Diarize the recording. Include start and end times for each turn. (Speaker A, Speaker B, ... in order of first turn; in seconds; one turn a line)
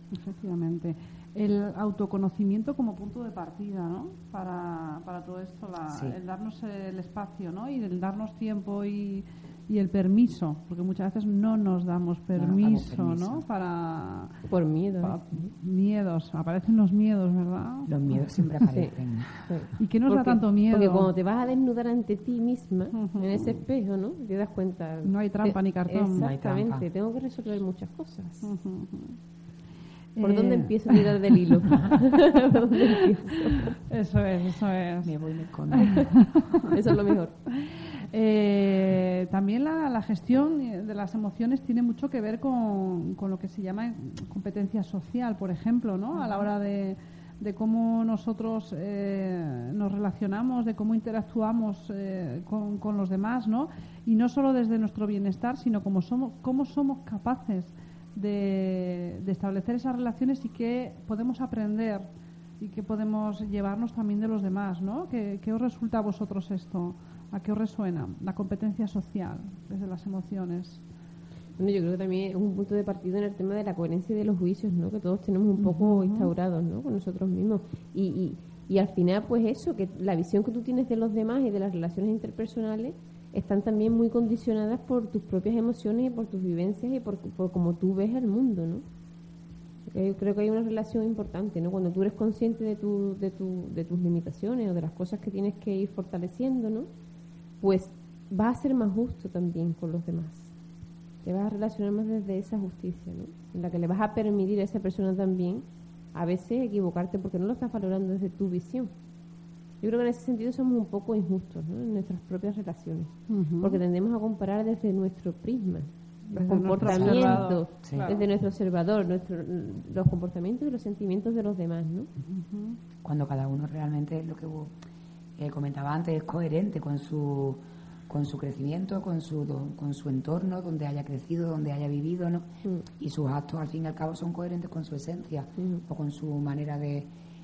Speaker A: 0.1-14.4
Speaker B: 5.9-6.2
Speaker B: 12.3-13.4
Speaker C: 14.5-15.5
Speaker A: 15.0-18.1
Speaker B: 17.9-19.5
Speaker C: 18.7-18.9
Speaker C: 19.5-28.6
Speaker A: 19.8-21.1
Speaker A: 22.9-23.6
Speaker A: 25.1-26.3
Speaker B: 26.1-26.9
Speaker A: 28.4-29.2
Speaker A: 30.2-31.9
Speaker C: 30.2-33.8
Speaker A: 33.9-35.1
Speaker B: 35.0-36.0
Speaker A: 35.7-36.7
Speaker C: 35.8-37.4
Speaker A: 37.5-62.1
Speaker A: 62.6-70.8
Speaker C: 71.6-88.8
Speaker A: 75.6-76.3
Speaker C: 89.9-96.9
Speaker C: 97.6-100.5
Speaker C: 101.2-108.9
Speaker C: 109.8-122.1
Speaker A: 113.3-113.8
Speaker A: 116.3-118.2
Speaker B: 116.8-118.1
Speaker A: 122.2-122.8
Speaker B: 123.0-124.7
Speaker B: 125.4-137.1